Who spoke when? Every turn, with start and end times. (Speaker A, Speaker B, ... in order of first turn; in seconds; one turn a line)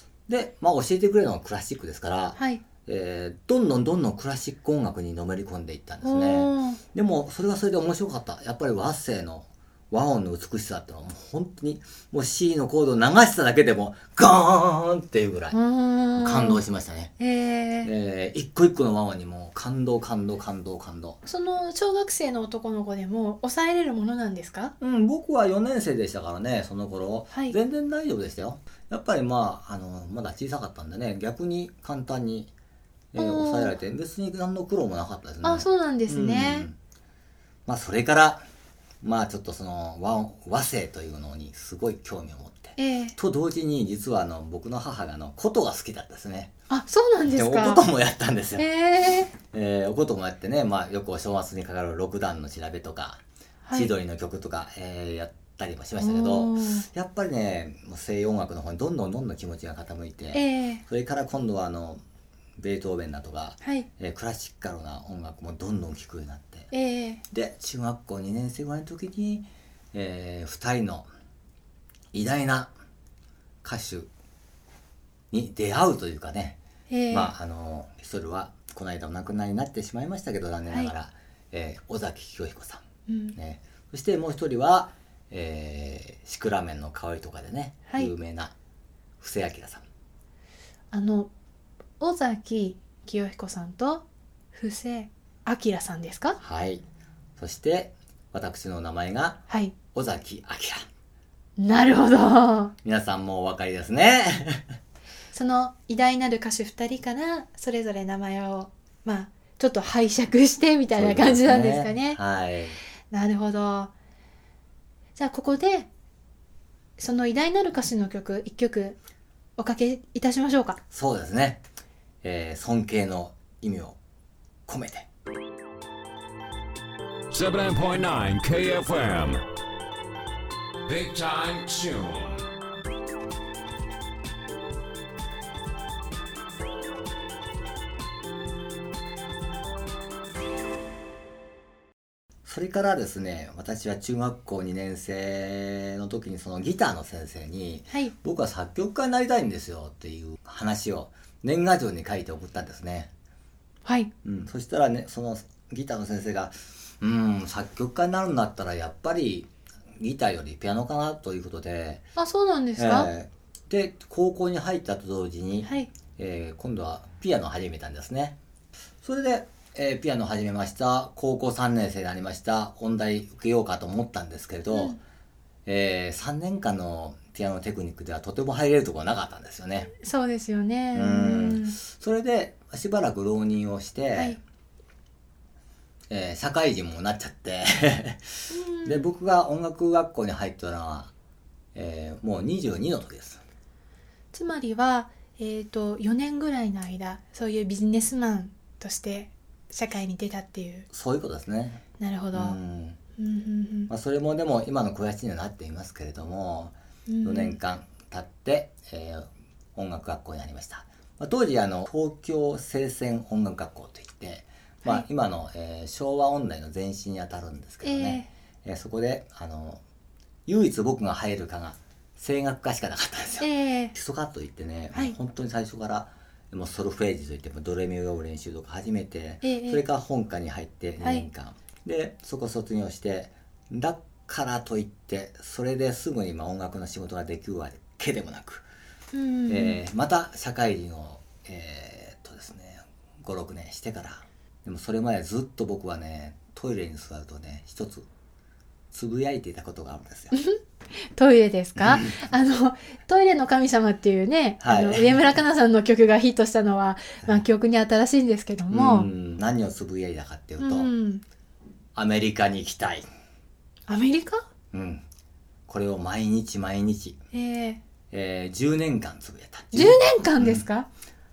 Speaker A: 0.3-15.6
Speaker B: 2.4-2.6
Speaker B: 6.0-6.8
Speaker B: 15.5-16.6
Speaker A: 16.2-17.1
Speaker B: 17.2-17.9
Speaker A: 17.8-21.2
Speaker B: 21.2-24.7
Speaker A: 24.8-32.5
Speaker B: 27.3-27.6
Speaker A: 33.1-36.8
Speaker B: 33.2-33.8
Speaker B: 35.4-36.7
Speaker A: 37.7-38.5
Speaker A: 39.0-46.5
Speaker B: 42.8-43.2
Speaker B: 46.7-47.9
Speaker A: 47.3-48.7
Speaker B: 48.6-49.3
Speaker A: 49.4-53.2
Speaker B: 53.6-53.9
Speaker A: 53.7-62.0
Speaker B: 56.0-56.9
Speaker B: 60.3-60.8
Speaker A: 62.6-66.7
Speaker B: 63.6-63.9
Speaker B: 66.7-67.2
Speaker A: 67.3-71.1
Speaker A: 72.1-72.7
Speaker A: 73.6-74.1
Speaker A: 75.3-76.6
Speaker B: 76.9-77.3
Speaker A: 77.1-82.8
Speaker B: 83.1-83.4
Speaker A: 83.4-88.5
Speaker B: 87.9-88.1
Speaker A: 89.2-89.8
Speaker B: 90.9-91.3
Speaker B: 92.0-96.4
Speaker A: 96.4-96.8
Speaker A: 97.4-100.8
Speaker B: 99.5-99.7
Speaker B: 101.6-102.7
Speaker A: 102.8-104.7
Speaker B: 105.3-112.2
Speaker A: 110.9-112.8
Speaker B: 113.1-113.9
Speaker B: 115.2-115.9
Speaker B: 117.0-119.0
Speaker B: 119.6-120.8
Speaker A: 120.9-121.6
Speaker A: 122.2-124.0
Speaker A: 124.7-125.1
Speaker C: 127.3-129.4
Speaker C: 130.9-132.4
Speaker A: 142.4-153.1
Speaker B: 153.8-154.1
Speaker A: 154.2-162.1
Speaker B: 162.2-163.1
Speaker A: 162.8-168.4
Speaker B: 165.6-165.9
Speaker A: 169.0-175.0
Speaker B: 174.7-175.0
Speaker A: 175.7-179.9
Speaker B: 180.0-181.8
Speaker A: 180.9-184.4
Speaker A: 186.1-188.3
Speaker B: 188.5-189.1
Speaker A: 188.8-191.1
Speaker A: 191.8-193.4
Speaker B: 194.3-200.9
Speaker A: 200.9-201.8
Speaker B: 202.0-202.6
Speaker A: 202.3-203.0
Speaker B: 203.2-203.9
Speaker A: 203.9-219.8
Speaker B: 207.1-207.6
Speaker B: 217.8-218.3
Speaker A: 220.5-238.7
Speaker B: 223.4-223.9
Speaker B: 229.4-229.8
Speaker B: 231.0-231.3
Speaker B: 239.1-239.8
Speaker A: 239.5-248.1
Speaker A: 248.9-250.3
Speaker B: 250.3-250.6
Speaker B: 251.1-259.1
Speaker A: 251.8-252.2
Speaker A: 254.6-255.4
Speaker A: 258.7-260.9
Speaker B: 260.6-261.2
Speaker A: 261.9-263.1
Speaker B: 263.9-264.4
Speaker A: 264.7-265.1
Speaker A: 265.7-267.2
Speaker B: 267.3-267.8
Speaker A: 268.1-270.7
Speaker B: 269.7-270.9